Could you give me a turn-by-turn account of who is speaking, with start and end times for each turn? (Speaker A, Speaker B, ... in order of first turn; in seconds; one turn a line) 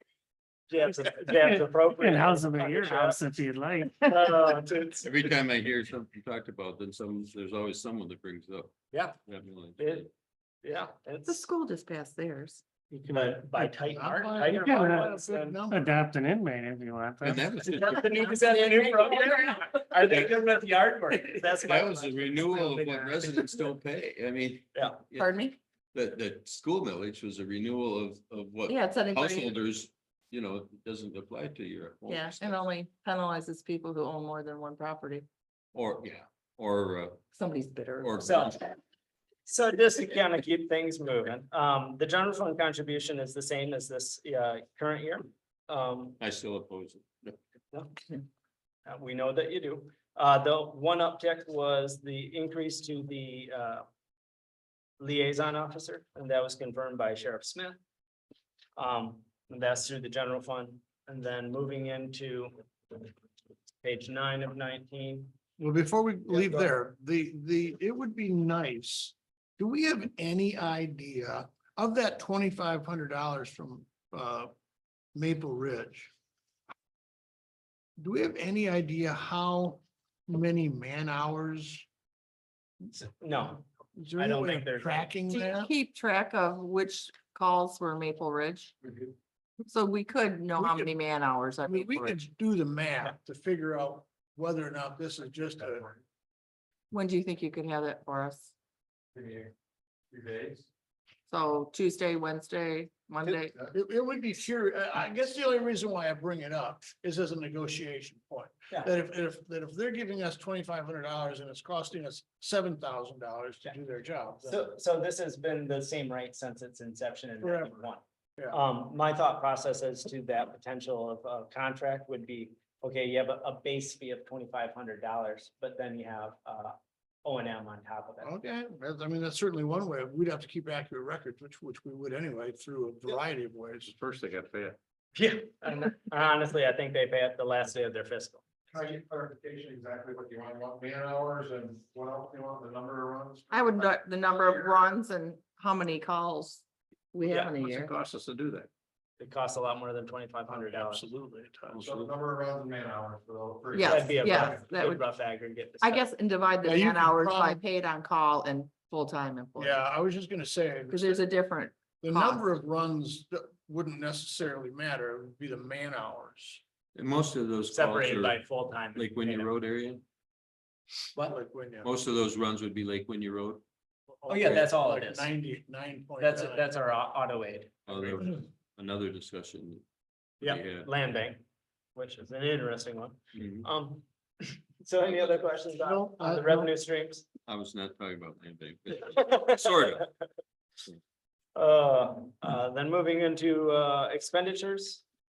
Speaker A: 0.7-3.3
Speaker B: 1.3-4.0
Speaker A: 4.0-5.1
Speaker C: 5.0-8.7
Speaker A: 8.9-9.2
Speaker C: 9.2-10.0
Speaker A: 9.8-10.1
Speaker A: 10.6-11.5
Speaker D: 11.3-12.6
Speaker A: 12.9-15.6
Speaker E: 13.9-15.9
Speaker B: 14.6-15.1
Speaker B: 15.7-17.7
Speaker C: 17.2-18.3
Speaker A: 17.7-23.7
Speaker C: 21.6-25.3
Speaker A: 24.7-25.0
Speaker D: 25.2-25.6
Speaker C: 25.9-32.6
Speaker D: 28.7-29.6
Speaker D: 32.1-35.3
Speaker C: 35.7-37.2
Speaker D: 37.3-38.5
Speaker C: 38.0-38.6
Speaker A: 38.2-38.6
Speaker A: 39.5-46.2
Speaker C: 46.2-47.4
Speaker A: 48.9-53.8
Speaker A: 55.0-57.8
Speaker A: 58.8-63.1
Speaker A: 63.8-65.4
Speaker E: 65.6-74.5
Speaker A: 66.3-66.7
Speaker E: 75.1-76.1
Speaker E: 78.0-81.9
Speaker A: 82.9-85.1
Speaker E: 83.9-85.7
Speaker D: 85.3-88.8
Speaker D: 89.7-92.2
Speaker E: 90.5-90.9
Speaker E: 91.7-95.9
Speaker D: 96.9-98.5
Speaker F: 99.1-99.5
Speaker F: 100.1-100.7
Speaker D: 101.3-103.5
Speaker E: 103.7-114.6
Speaker A: 114.4-128.3
Speaker E: 117.4-117.8
Speaker E: 128.2-133.9
Speaker C: 134.0-134.7
Speaker A: 135.1-138.4
Speaker F: 138.7-143.9
Speaker D: 143.5-147.9
Speaker F: 147.4-148.0
Speaker A: 149.2-151.1
Speaker E: 150.5-151.8
Speaker C: 151.7-152.1
Speaker F: 151.7-154.7
Speaker D: 153.7-155.0
Speaker A: 153.9-156.1
Speaker D: 155.8-159.8
Speaker E: 156.6-157.6
Speaker E: 159.6-161.2
Speaker D: 160.9-162.5
Speaker E: 162.0-166.6
Speaker C: 166.9-170.0
Speaker A: 167.7-169.5
Speaker E: 171.2-171.9
Speaker C: 171.8-173.6
Speaker E: 174.1-176.6
Speaker A: 174.3-175.3
Speaker A: 176.2-178.2
Speaker C: 177.8-179.8
Speaker C: 180.4-180.9
Speaker A: 180.4-181.4
Speaker A: 181.9-187.2
Speaker C: 183.3-183.7
Speaker E: 185.8-186.7
Speaker C: 187.5-190.1
Speaker A: 189.0-190.1
Speaker A: 191.5-195.0